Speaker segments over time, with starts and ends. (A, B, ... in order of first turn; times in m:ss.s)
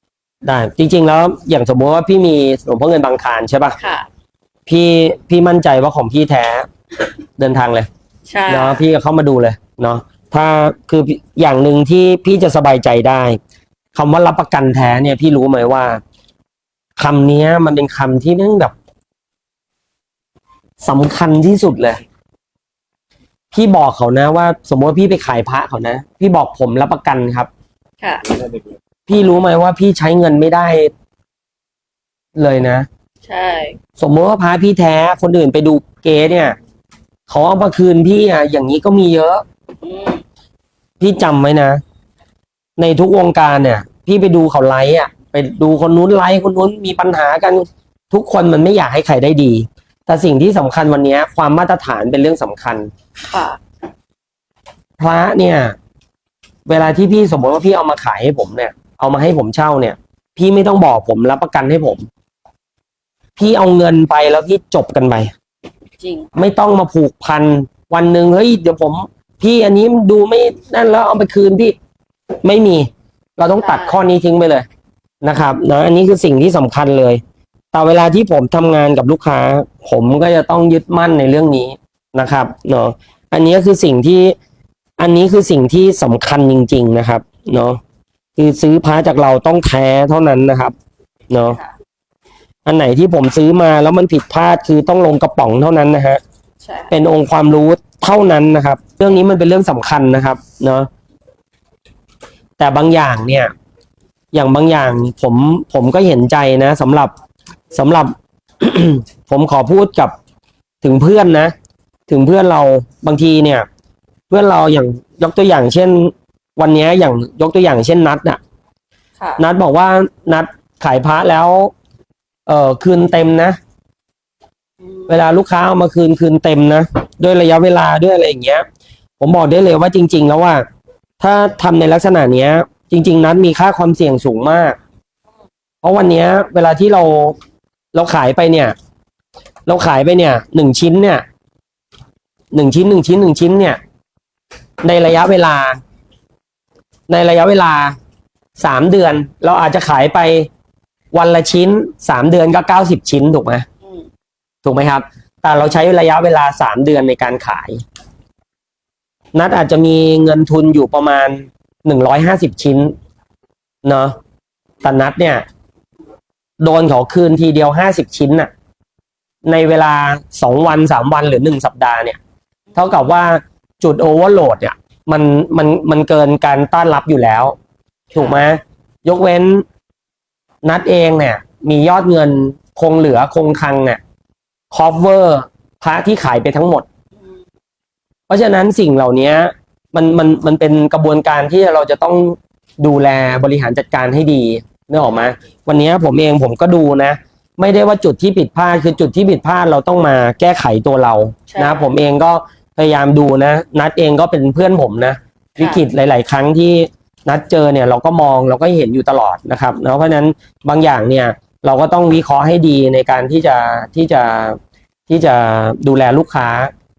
0:00.4-0:03.8 A
0:03.8-0:04.1 B
0:04.7-0:06.7 A
0:07.4-0:07.9 A
0:08.3-0:08.8 B
0:08.5-0:13.4 A
0:14.0-0:16.0 A
0:17.0-0:18.7 A
0:20.8-0:22.0 A
0:23.5-0:27.5 A
0:28.0-0:28.4 B
0:29.1-0:30.9 A
0:32.4-0:32.9 A
0:33.2-0:33.8 B
0:34.0-0:36.6 A
0:37.3-0:39.4 A
0:39.8-0:40.2 B
0:41.0-0:41.8 A
0:42.8-0:52.9 A
0:53.2-0:53.6 B
0:55.0-0:55.8 A
0:56.7-1:02.1 A
1:03.4-1:05.3 A
1:06.0-1:06.3 B
1:06.4-1:11.8 A
1:12.4-1:14.7 A
1:13.6-1:14.0 B
1:15.2-1:17.2 A
1:17.7-1:24.3 A
1:25.0-1:27.8 A
1:28.4-1:30.7 A
1:31.3-1:31.6 A
1:31.5-1:31.7 B
1:32.7-1:36.2 A
1:36.6-1:36.9 B
1:36.9-1:40.9 A
1:42.6-1:43.5 A
1:44.3-1:47.1 A
1:47.7-1:50.1 A
1:50.8-1:51.5 A
1:52.1-1:53.7 A
1:54.3-1:58.4 A
1:59.4-2:01.7 A
2:02.5-2:03.6 A
2:04.8-2:05.2 B
2:05.1-2:08.6 A
2:09.2-2:10.6 A
2:11.2-2:14.8 A
2:15.8-2:17.4 A
2:17.9-2:18.8 A
2:19.7-2:21.2 A
2:22.5-2:23.8 A
2:24.8-2:25.8 A
2:27.1-2:28.0 A
2:28.6-2:30.5 A
2:31.1-2:33.7 A
2:34.6-2:37.8 A
2:39.3-2:42.9 A
2:43.8-2:44.2 A
2:44.8-2:45.4 A
2:46.6-2:48.5 A
2:49.4-2:52.2 A
2:52.8-2:57.6 A
2:58.1-2:58.4 B
2:58.1-2:59.6 A
3:00.6-3:04.0 A
3:04.7-3:06.9 A
3:08.3-3:36.7 A
3:21.5-3:21.9 B